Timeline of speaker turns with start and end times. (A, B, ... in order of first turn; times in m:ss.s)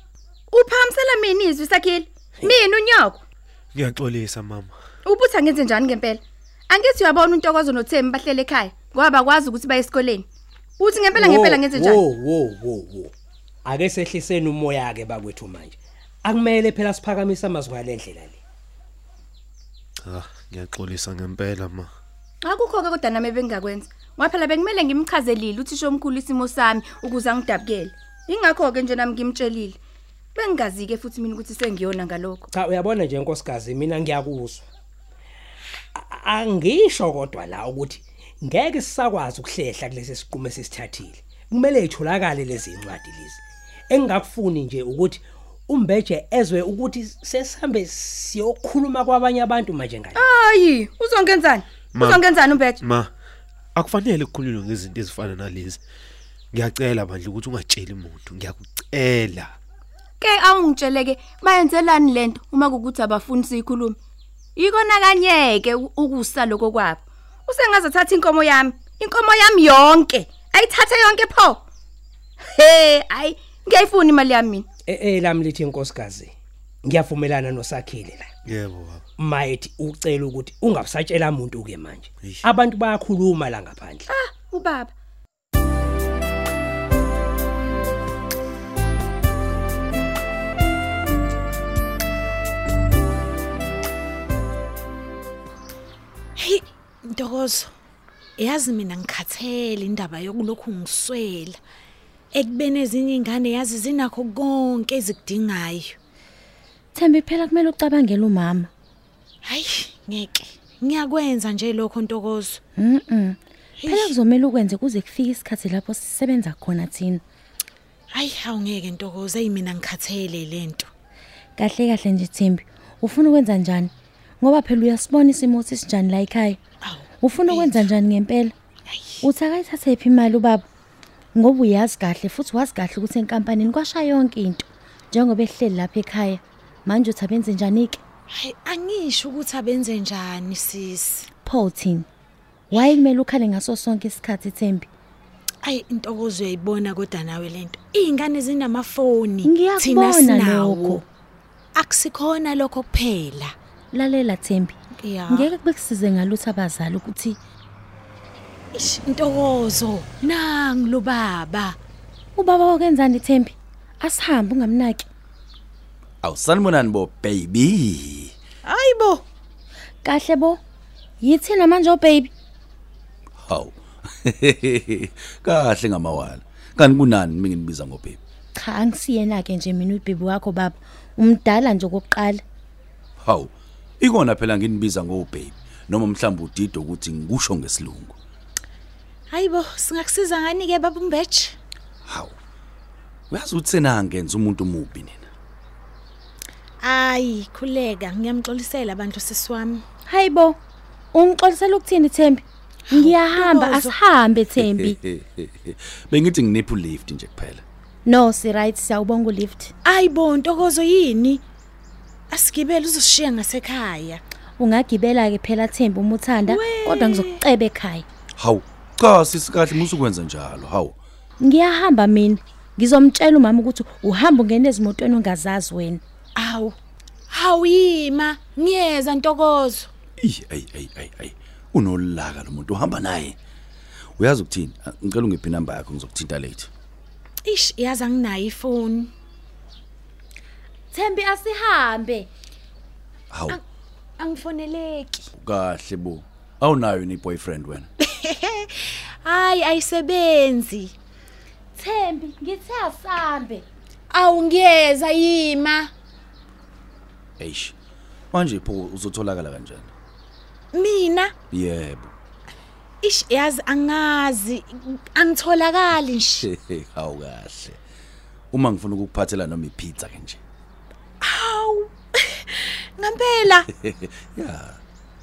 0:00.5-0:03.2 A
0:03.8-0:04.6 B
0:05.0-0:10.3 A
0:10.8-0:12.0 A
0:11.1-0:13.1 C
0:13.6-0:18.4 C
0:20.0-0:21.9 B
0:22.4-0:29.8 A
0:30.3-0:32.5 A
0:32.5-0:34.6 C
0:35.9-0:50.2 C
0:50.1-0:52.8 A
0:53.8-0:55.8 B
0:56.5-0:59.5 B
1:00.2-1:04.0 A
1:04.6-1:11.6 A
1:12.4-1:14.6 A
1:14.9-1:18.3 C
1:18.5-1:18.9 B
1:19.2-1:24.0 C
1:24.1-1:24.9 A
1:36.4-1:37.7 D
1:38.4-1:41.6 D
1:42.3-1:46.0 D
1:46.9-1:48.7 E
1:49.5-1:52.6 D
1:52.8-1:57.2 E
1:53.8-1:54.1 D
1:58.2-2:00.9 D
2:01.6-2:06.6 E
2:06.9-2:07.8 D
2:07.2-2:08.5 E
2:08.9-2:09.2 D
2:09.2-2:10.6 E
2:11.3-2:18.0 E
2:18.4-2:21.3 D
2:21.4-2:22.0 E
2:22.7-2:24.9 E
2:25.6-2:31.0 D
2:29.4-2:31.0 E
2:31.8-2:33.5 D
2:33.9-2:34.8 E
2:35.0-2:35.5 D
2:35.3-2:37.4 E
2:38.7-2:41.8 D
2:42.3-2:45.0 E
2:46.2-2:48.3 F
2:48.7-2:49.2 D
2:50.0-2:50.6 E
2:51.2-2:52.3 E
2:53.4-2:58.2 F
2:58.5-3:02.4 E
3:03.2-3:08.2 F
3:09.3-3:11.5 D
3:12.0-3:12.3 F
3:13.3-3:15.3 F
3:16.8-3:19.8 D
3:20.1-3:20.6 E
3:21.1-3:25.0 E
3:22.9-3:24.0 D
3:24.6-3:27.6 F
3:28.0-3:29.7 E
3:29.8-3:31.4 D
3:32.3-3:34.2 D
3:34.6-3:38.0 E
3:36.5-3:37.4 D
3:38.4-3:41.0 F
3:41.4-3:46.0 E
3:46.4-3:46.7 D
3:47.3-3:49.9 D
3:50.2-3:53.4 F
3:54.2-3:56.7 F
3:57.4-3:59.1 D
4:00.9-4:02.3 E
4:03.3-4:03.6 F
4:04.2-4:05.2 D
4:05.4-4:07.9 F
4:08.1-4:10.9 D
4:11.8-4:13.6 E
4:14.1-4:15.9 D
4:17.4-4:17.7 F
4:18.3-4:19.9 F
4:20.7-4:21.3 D
4:21.5-4:22.1 F
4:23.0-4:26.4 D
4:26.4-4:27.8 F
4:28.5-4:30.4 F
4:31.2-4:33.6 D
4:33.7-4:34.8 F